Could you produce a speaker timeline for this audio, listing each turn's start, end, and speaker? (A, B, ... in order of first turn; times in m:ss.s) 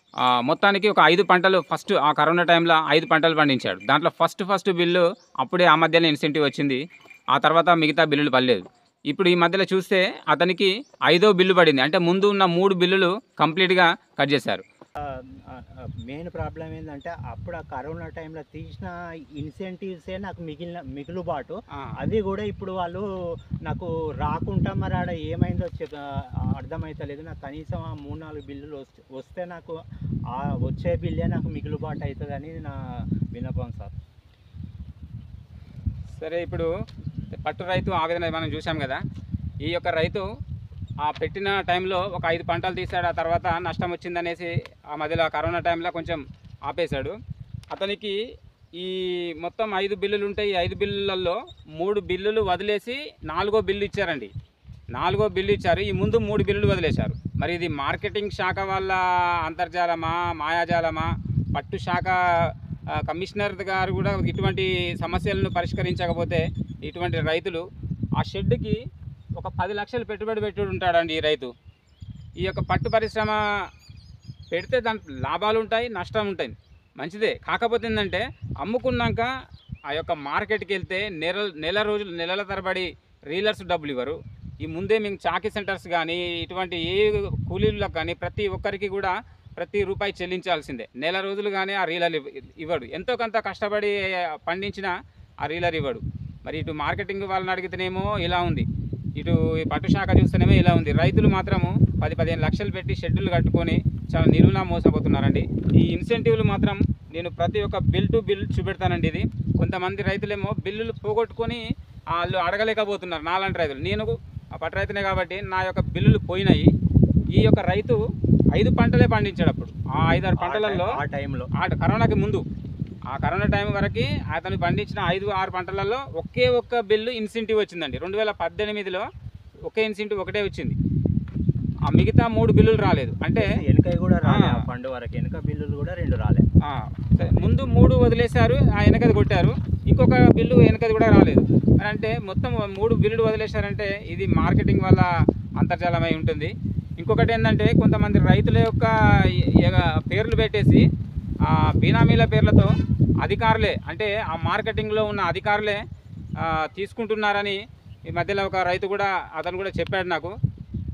0:00.2-0:06.8 A
0:07.3-0:14.6 A
0:15.0-0:23.0 B
0:23.6-0:29.8 B
0:30.3-0:33.9 B
0:36.2-0:36.7 A
0:37.3-0:39.0 A
0:39.6-0:40.2 A
0:41.0-0:47.1 A
0:47.7-0:48.2 A
0:48.8-0:54.3 A
0:54.9-1:07.6 A
1:08.2-1:08.8 A
1:09.4-1:11.5 A
1:12.4-1:13.4 A
1:14.5-1:19.3 A
1:19.9-1:34.9 A
1:35.4-1:38.6 A
1:39.2-1:51.6 A
1:52.1-1:56.7 A
1:57.3-1:58.0 A
1:58.5-2:00.9 A
2:00.4-2:01.5 B
2:01.5-2:02.4 A
2:03.1-2:09.0 A
2:09.7-2:10.7 A
2:11.9-2:13.4 A
2:13.3-2:16.4 B
2:14.2-2:14.6 A
2:16.6-2:25.1 A
2:25.6-2:30.8 A
2:31.4-2:35.8 A
2:36.4-2:37.6 A
2:38.1-2:40.3 A